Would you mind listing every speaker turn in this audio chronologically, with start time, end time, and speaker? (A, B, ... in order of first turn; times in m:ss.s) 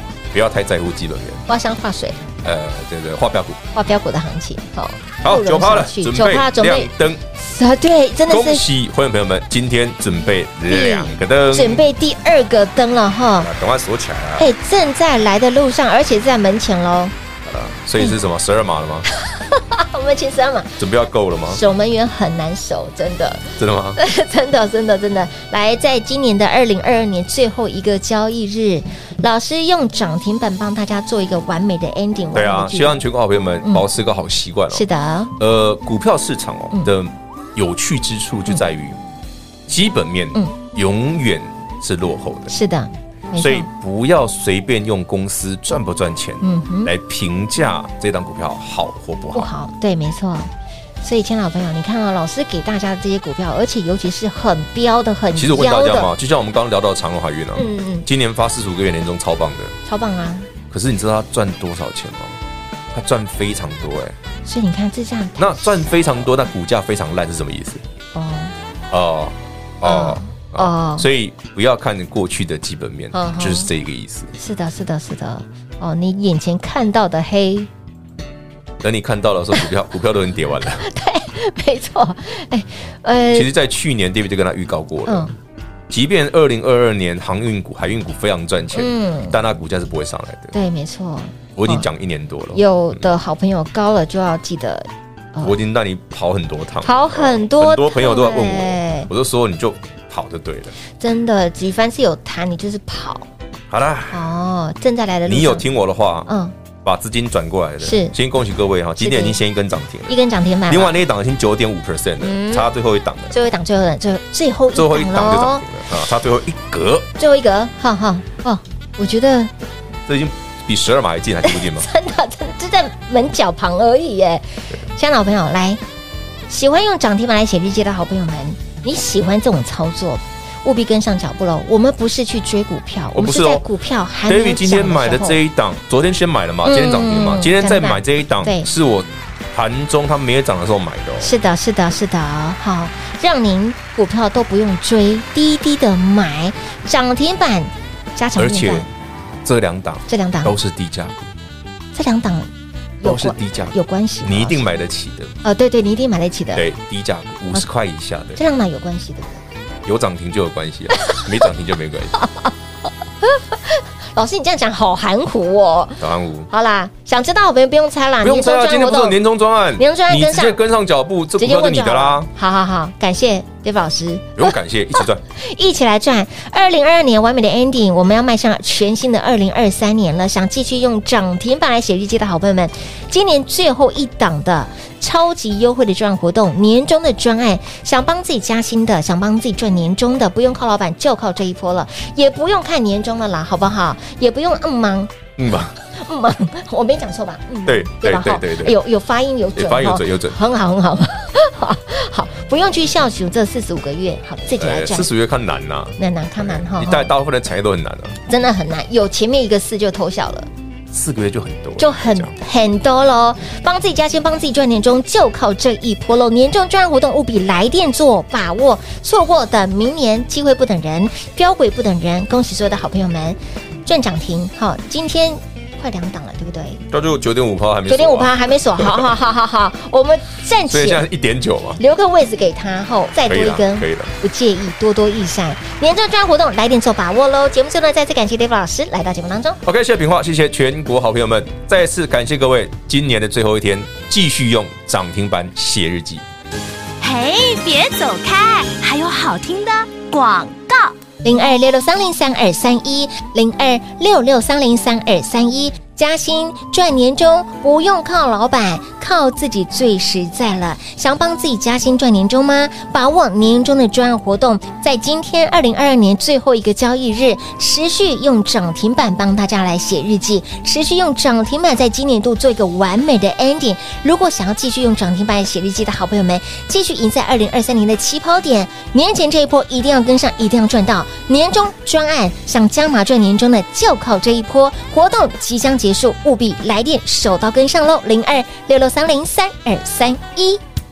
0:00.3-0:01.4 A
0:01.5-0:02.2 B
0:02.4-0:03.6 A
0:03.7-0:08.6 B
0:05.2-0:07.2 A
0:08.3-0:11.8 A
0:10.7-0:13.5 B
0:13.4-0:14.5 A
0:14.4-0:17.1 B
0:17.4-0:19.1 A
0:19.1-0:20.8 B
0:20.8-0:21.6 A
0:21.5-0:33.0 B
0:23.6-0:24.0 A
0:32.3-0:39.0 A
0:34.7-0:35.3 B
0:39.7-0:42.5 A
0:42.5-0:43.7 B
0:43.4-0:49.5 A
0:46.4-0:46.9 B
0:49.3-0:50.5 B
0:51.0-0:56.1 B
0:55.4-0:59.8 A
0:57.6-0:58.1 B
0:59.9-1:00.5 B
1:00.7-1:02.4 A
1:02.9-1:04.2 A
1:04.4-1:06.3 B
1:05.4-1:07.8 A
1:08.1-1:08.5 B
1:08.9-1:14.3 A
1:09.8-1:11.1 B
1:13.1-1:13.7 B
1:14.4-1:17.7 B
1:18.8-1:20.9 A
1:20.8-1:23.5 B
1:23.3-1:25.3 A
1:25.1-1:25.3 B
1:25.9-1:30.6 A
1:28.7-1:29.4 B
1:30.5-1:31.9 B
1:31.6-1:32.6 A
1:32.5-1:35.6 B
1:35.4-1:40.8 A
1:36.8-1:39.1 B
1:41.0-1:43.3 B
1:43.7-1:44.3 A
1:44.1-1:45.7 B
1:45.3-1:46.3 A
1:46.3-1:46.5 B
1:46.8-1:53.4 A
1:47.8-1:48.2 B
1:49.0-1:49.4 B
1:50.1-1:51.0 B
1:52.2-1:52.7 B
1:53.3-1:55.6 B
1:54.7-1:57.1 A
1:57.2-1:59.5 B
2:00.1-2:01.9 A
2:01.4-2:05.8 B
2:06.5-2:15.4 B
2:13.1-2:13.7 A
2:14.3-2:21.3 A
2:16.6-2:18.7 B
2:21.2-2:28.9 B
2:28.4-2:28.9 A
2:29.4-2:31.3 A
2:30.1-2:30.6 B
2:31.9-2:34.7 B
2:33.0-2:35.3 A
2:35.4-2:36.6 B
2:36.5-2:38.4 A
2:38.4-2:39.4 B
2:39.8-2:42.2 A
2:42.2-2:42.5 B
2:43.2-2:49.2 B
2:46.0-2:46.5 A
2:48.2-2:52.3 A
2:49.8-2:50.6 B
2:51.4-3:15.2 B
2:54.4-2:55.2 A
3:15.4-3:15.8 A
3:15.8-3:25.1 B
3:17.7-3:18.8 A
3:19.6-3:20.4 A
3:24.6-3:28.2 A
3:26.0-3:27.1 B
3:28.3-3:30.5 B
3:30.9-3:32.4 A
3:31.8-3:46.8 B
3:46.9-3:49.1 A
3:47.9-3:51.0 B
3:50.7-3:51.8 A
3:51.8-3:59.6 B
3:53.3-3:54.1 A
3:59.6-4:06.2 A
4:07.0-4:11.0 C
4:11.2-4:50.6 B